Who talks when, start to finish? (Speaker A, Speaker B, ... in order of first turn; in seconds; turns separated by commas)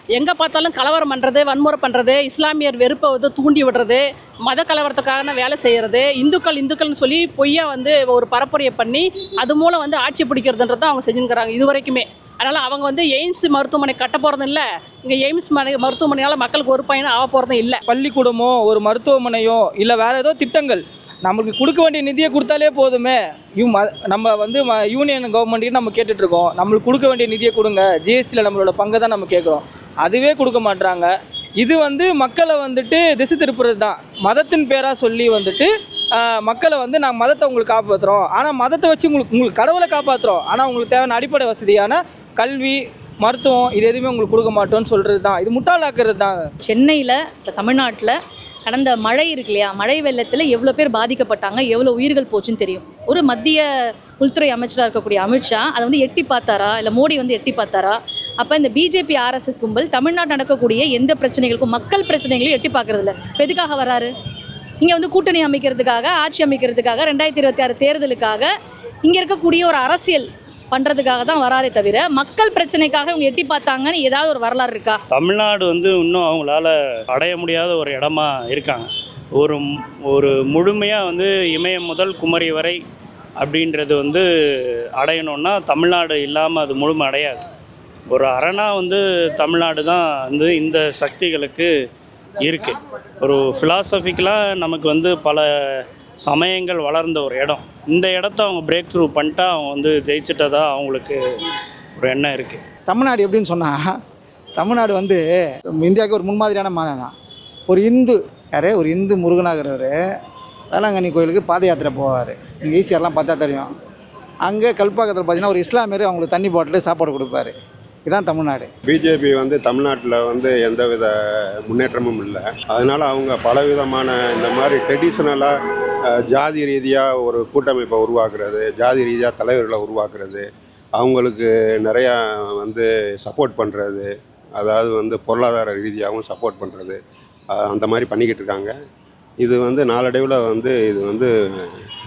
Speaker A: 0.1-17.8, Speaker B: 17.9-46.4, Speaker C: 46.6-48.1, Speaker C: 48.7-53.6, Speaker C: 54.2-64.1, Speaker C: 64.8-68.5, Speaker C: 69.0-75.0, Speaker D: 75.1-82.8, Speaker D: 83.4-84.2, Speaker D: 85.0-87.4, Speaker D: 88.1-91.7, Speaker D: 92.4-101.2, Speaker D: 102.0-102.6, Speaker E: 102.9-103.9, Speaker E: 104.6-107.1, Speaker E: 107.7-110.0, Speaker E: 110.7-113.7, Speaker E: 114.5-117.5, Speaker E: 118.0-118.7, Speaker F: 118.9-121.1, Speaker F: 121.6-125.5, Speaker F: 126.1-137.0, Speaker F: 137.5-138.7, Speaker F: 139.4-141.3